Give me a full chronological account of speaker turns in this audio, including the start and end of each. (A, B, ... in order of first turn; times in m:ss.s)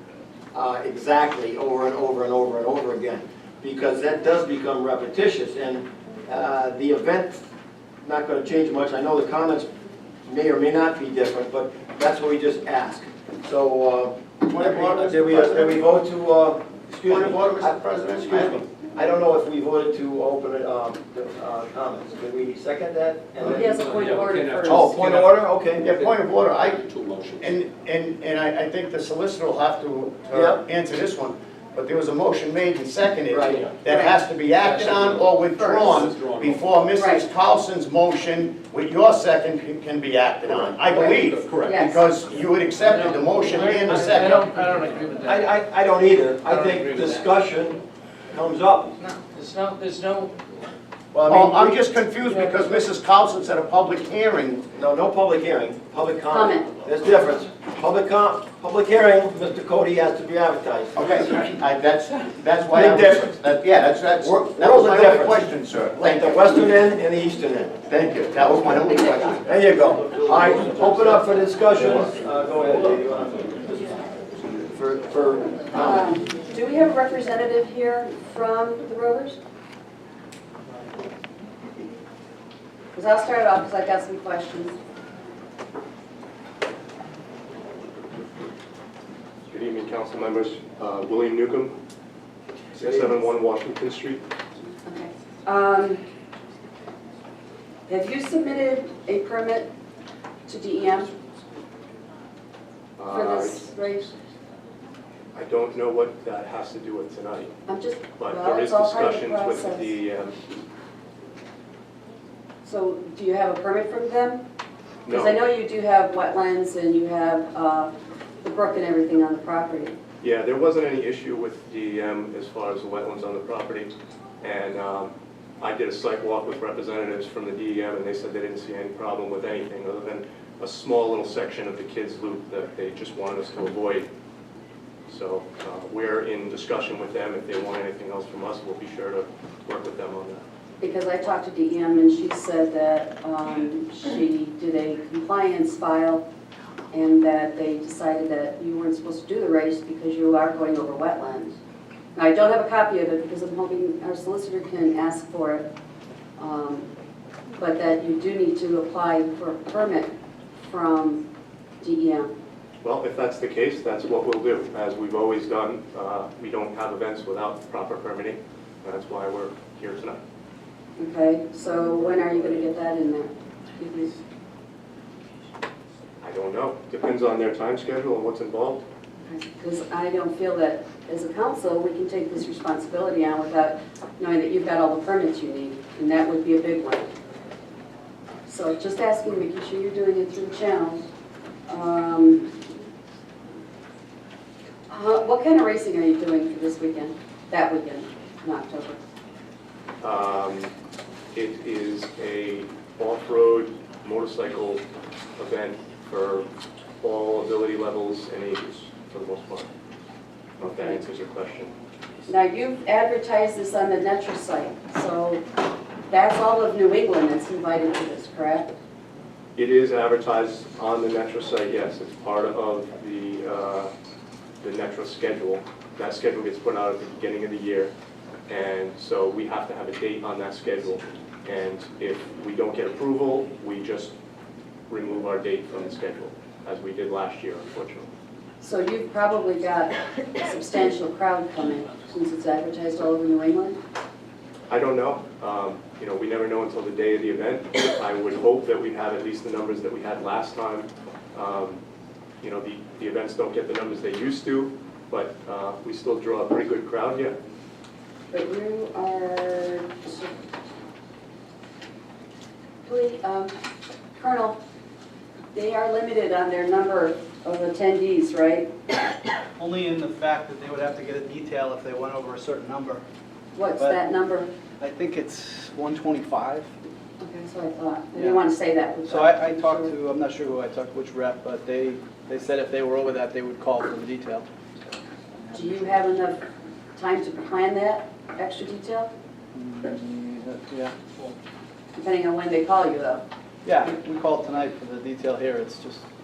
0:00.5-0:07.4 A
0:08.0-0:09.7 A
0:10.2-0:25.8 A
0:14.4-0:15.8 B
0:17.0-0:18.6 B
0:23.4-0:24.9 C
0:23.8-0:25.4 D
0:25.8-0:26.8 B
0:26.9-0:27.3 D
0:27.4-0:44.5 B
0:30.3-0:30.6 A
0:33.3-0:33.7 A
0:33.9-0:34.1 C
0:35.5-0:36.0 C
0:36.1-0:36.6 D
0:36.9-0:37.2 C
0:41.1-0:41.7 D
0:41.6-0:42.1 C
0:42.8-0:45.4 E
0:45.2-0:48.9 A
0:46.5-0:47.3 E
0:49.0-0:50.4 E
0:51.1-0:54.6 B
0:51.3-0:51.7 A
0:52.3-0:52.6 E
0:54.7-1:01.4 A
0:56.3-0:56.7 C
1:01.0-1:06.4 B
1:02.7-1:03.4 A
1:04.2-1:05.5 A
1:06.0-1:07.7 A
1:07.9-1:09.4 B
1:09.4-1:13.9 A
1:14.6-1:16.1 A
1:15.8-1:19.4 C
1:23.0-1:24.8 C
1:29.5-1:31.8 F
1:32.7-1:34.2 F
1:34.8-1:36.0 C
1:37.9-1:39.7 C
1:40.4-1:41.1 C
1:43.0-1:44.1 F
1:43.1-1:44.1 C
1:45.3-1:47.5 F
1:47.7-1:49.9 C
1:48.2-1:50.4 F
1:52.6-1:54.4 C
1:55.0-1:55.4 F
1:55.1-2:00.0 C
2:00.2-2:14.1 F
2:15.1-2:20.4 F
2:20.8-2:26.2 C
2:26.9-2:31.6 C
2:32.1-2:35.7 C
2:36.4-2:36.9 C
2:37.6-2:41.2 C
2:41.8-2:42.3 C
2:42.8-2:50.2 F
2:51.0-2:54.1 C
2:56.2-2:58.8 F
2:59.2-3:07.1 C
3:08.5-3:11.1 C
3:11.7-3:12.5 C
3:14.9-3:19.0 C
3:20.0-3:20.7 F
3:21.3-3:24.8 F
3:25.4-3:26.5 F
3:27.0-3:29.7 F
3:30.6-3:31.7 F
3:30.6-3:31.0 C
3:32.3-3:35.4 C
3:36.1-3:38.7 C
3:39.6-3:43.9 F
3:44.6-3:47.9 F
3:48.5-3:54.1 F
3:54.9-3:58.1 F
3:58.6-4:03.8 C
4:04.7-4:11.8 F
4:12.4-4:17.4 F
4:18.3-4:20.3 C
4:22.8-4:23.5 C
4:24.2-4:24.6 C
4:25.5-4:28.7 C
4:29.6-4:33.0 G
4:33.5-4:34.5 C
4:33.8-4:34.0 G
4:34.8-4:36.7 G
4:37.2-4:39.9 C
4:38.1-4:38.4 G
4:39.0-4:44.4 G
4:45.4-4:46.0 G
4:45.5-4:46.4 C
4:47.0-4:49.1 C
4:49.5-4:51.3 G
4:52.0-4:53.2 C
4:53.6-4:56.0 G